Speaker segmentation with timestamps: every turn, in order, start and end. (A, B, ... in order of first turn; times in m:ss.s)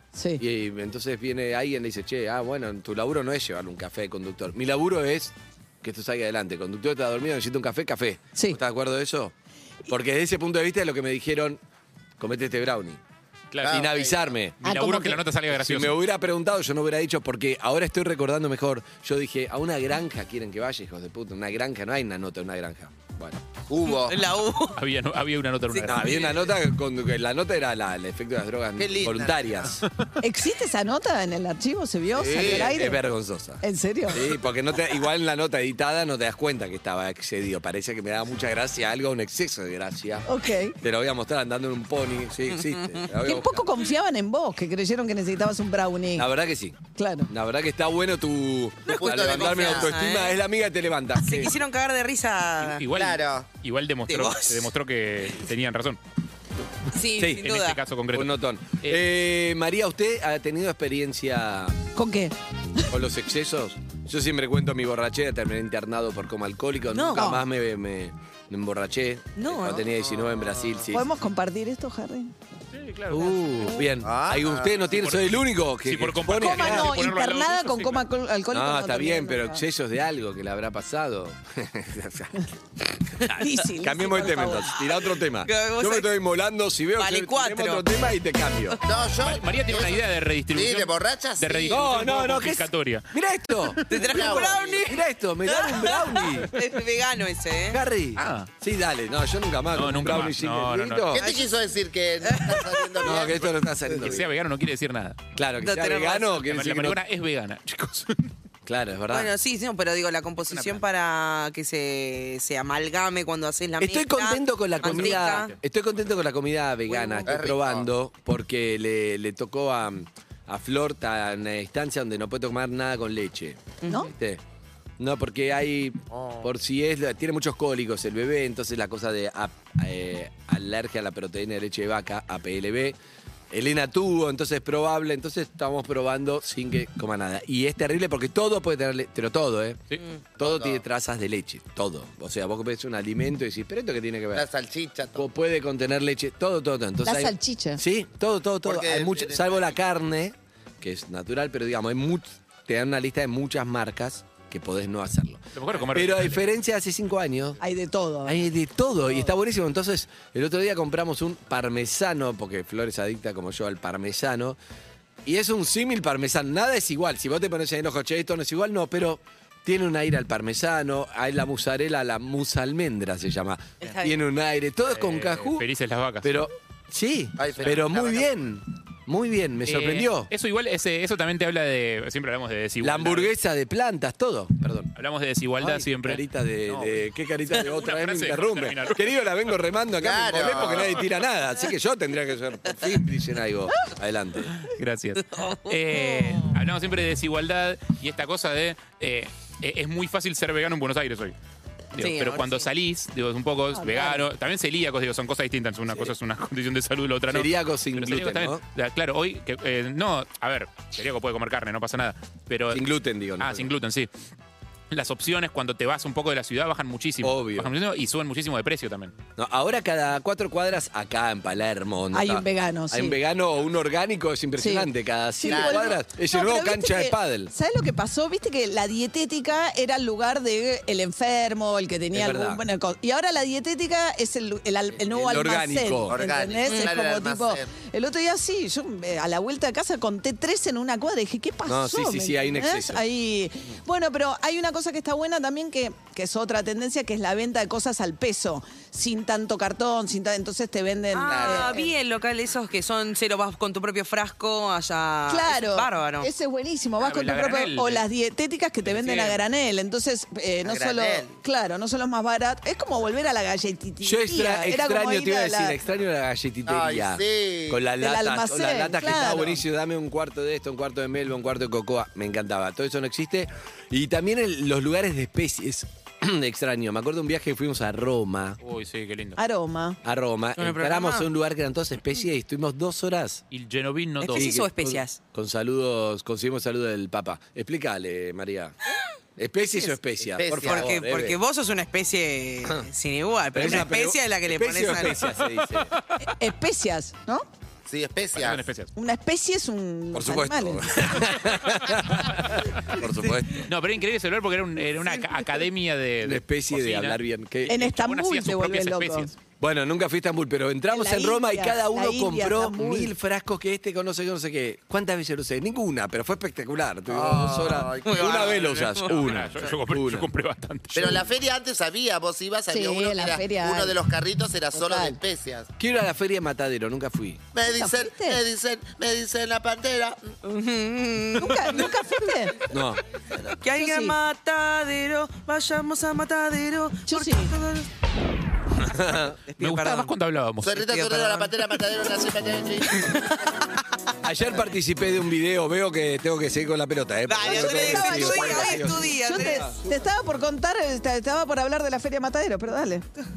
0:00.1-0:00.4 A
0:00.4-0:09.3 B
0:09.9-0:11.6 B
0:12.2-0:13.0 B
0:13.5-0:13.8 C
0:13.6-0:14.3 D
0:13.6-0:14.6 B
0:14.6-0:16.0 C
0:14.6-0:15.2 A
0:15.5-0:23.4 B
0:23.7-0:24.2 D
0:23.8-0:24.8 E
0:24.8-0:26.4 C
0:25.7-0:26.4 E
0:25.8-0:29.8 B
0:28.8-0:29.8 D
0:30.2-0:33.0 A
0:32.2-0:40.3 B
0:32.2-0:32.8 D
0:33.6-0:34.3 A
0:40.3-0:40.8 A
0:40.8-0:43.7 B
0:42.6-0:43.0 E
0:43.2-0:46.3 A
0:46.2-0:51.6 B
0:47.0-0:47.3 A
0:48.9-0:50.4 E
0:48.9-0:49.9 D
0:51.2-0:52.9 E
0:52.6-0:56.0 C
0:52.9-0:53.5 D
0:54.1-0:54.7 E
0:56.9-0:57.8 E
0:57.2-0:57.4 B
0:57.4-0:58.3 C
0:58.1-1:01.8 B
1:02.0-1:02.9 A
1:02.9-1:11.0 B
1:06.9-1:07.3 E
1:07.1-1:07.4 A
1:09.4-1:09.9 E
1:09.7-1:10.9 D
1:10.9-1:12.3 A
1:12.7-1:13.8 C
1:13.1-1:17.0 B
1:14.0-1:14.9 D
1:14.9-1:18.0 C
1:16.3-1:19.6 A
1:18.5-1:28.8 B
1:23.3-1:24.8 A
1:24.8-1:26.1 E
1:27.0-1:27.8 E
1:28.8-1:31.8 D
1:29.2-1:33.1 C
1:31.7-1:33.8 B
1:33.7-1:34.3 C
1:33.9-1:37.8 E
1:33.9-1:34.9 D
1:34.8-1:36.5 B
1:37.7-1:41.2 B
1:38.2-1:38.5 C
1:39.7-1:41.2 C
1:41.1-1:44.2 D
1:41.2-1:41.5 E
1:42.2-1:43.3 E
1:43.0-1:44.3 B
1:44.0-1:45.3 C
1:45.4-1:47.0 B
1:45.6-1:46.4 E
1:46.4-1:48.3 C
1:48.7-1:49.3 B
1:49.1-1:55.5 E
1:50.4-1:50.8 C
1:53.8-2:04.4 B
1:54.9-1:55.6 C
1:56.9-1:57.3 E
1:57.3-1:57.9 D
2:03.8-2:04.1 E
2:05.0-2:13.0 B
2:06.1-2:06.5 D
2:13.5-2:19.8 B
2:20.4-2:20.8 D
2:20.4-2:24.5 B
2:24.3-2:25.2 D
2:25.2-2:37.6 B
2:27.0-2:27.8 A
2:28.6-2:29.8 D
2:35.6-2:36.5 C
2:37.6-2:38.5 A
2:38.2-2:44.6 B
2:39.0-2:39.3 A
2:45.2-2:55.7 B
2:53.8-2:54.2 E
2:54.9-2:56.4 C
2:56.2-3:00.3 B
2:57.4-2:58.3 D
2:59.7-3:03.3 C
3:02.8-3:04.9 B
3:05.0-3:09.1 C
3:05.6-3:14.6 B
3:10.0-3:11.0 D
3:10.4-3:11.1 C
3:14.6-3:21.4 C
3:15.3-3:16.6 E
3:22.0-3:32.8 C
3:22.0-3:22.7 E
3:23.7-3:24.2 A
3:25.9-3:26.2 B
3:27.3-3:28.6 B
3:32.7-3:33.7 B
3:33.4-3:34.1 C
3:34.9-3:39.1 C
3:37.2-3:37.7 B
3:39.4-3:47.5 B
3:42.1-3:43.2 A
3:44.6-4:11.9 A
3:45.5-3:46.0 D
3:52.1-3:52.6 B
3:55.0-3:56.2 B
3:56.1-3:57.7 D
3:56.7-3:56.9 E
4:01.7-4:03.0 B
4:11.1-4:16.3 E
4:11.3-4:11.9 D
4:15.3-4:25.8 A
4:17.0-4:18.0 C
4:18.8-4:19.4 C
4:20.6-4:21.3 D
4:24.0-4:38.6 B
4:26.7-4:27.8 D
4:28.0-4:29.6 A
4:38.6-4:39.4 C
4:39.4-4:40.0 A
4:40.0-4:43.4 B
4:40.6-4:41.3 E
4:43.5-4:44.6 C
4:44.2-4:45.2 E
4:44.3-4:48.8 B
4:49.4-4:51.4 B
4:50.4-4:50.9 D
4:50.6-4:55.4 E
4:53.5-4:55.9 B
4:56.2-4:57.4 A
4:57.9-4:58.6 D
4:58.4-4:58.9 C
4:59.0-5:01.0 A
5:00.1-5:03.7 B
5:03.7-5:09.4 C
5:06.2-5:07.8 B
5:07.7-5:09.3 A
5:09.6-5:20.3 B
5:10.9-5:13.1 A
5:17.1-5:18.5 D
5:18.0-5:19.7 E
5:18.4-5:21.3 C
5:20.9-5:25.7 D
5:22.7-5:24.0 A
5:24.7-5:25.2 A
5:25.8-5:27.4 B
5:27.5-5:30.4 D
5:27.7-5:28.4 A
5:30.4-5:31.9 E
5:31.4-5:32.6 A
5:32.7-5:33.0 B
5:33.6-5:37.9 E
5:33.8-5:34.2 A
5:37.1-5:37.5 A
5:38.8-5:39.4 B
5:39.5-5:40.1 E
5:39.6-5:41.5 C
5:40.6-5:43.7 D
5:44.2-5:49.7 B
5:47.3-5:49.7 E
5:47.5-5:53.1 A